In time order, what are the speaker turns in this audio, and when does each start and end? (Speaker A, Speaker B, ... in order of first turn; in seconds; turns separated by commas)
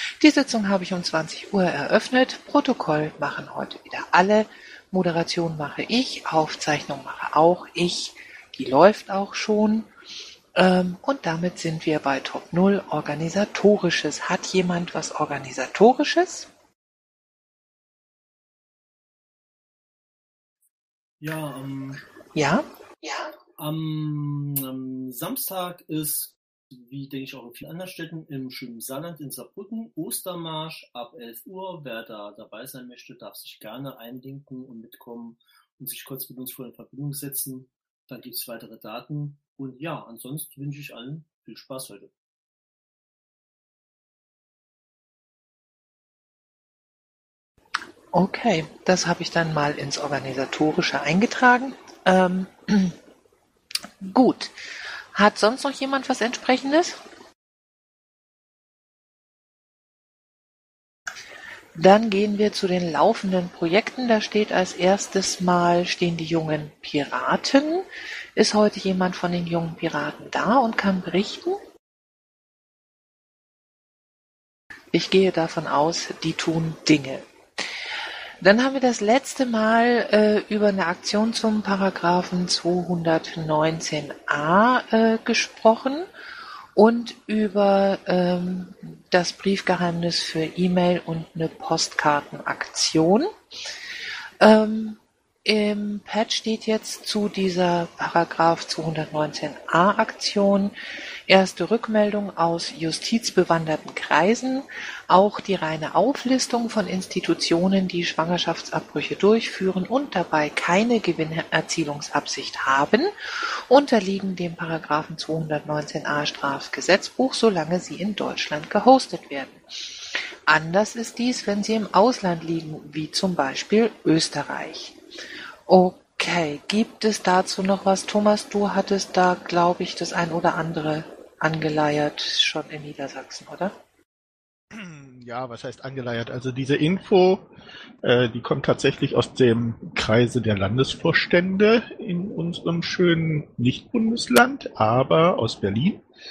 Speaker A: 0.2-9.9, Speaker A: 10.6-16.5, Speaker B: 21.2-22.0, Speaker A: 22.3-23.3, Speaker B: 23.6-42.1, Speaker A: 48.1-53.0, Speaker A: 54.0-54.5, Speaker A: 55.1-57.0, Speaker A: 61.7-71.6, Speaker A: 74.9-77.2, Speaker A: 78.4-86.1, Speaker A: 86.8-93.3, Speaker A: 94.4-100.7, Speaker A: 101.3-113.1, Speaker A: 113.7-125.0, Speaker A: 125.7-133.7, Speaker C: 134.7-137.5, Speaker C: 138.0-146.0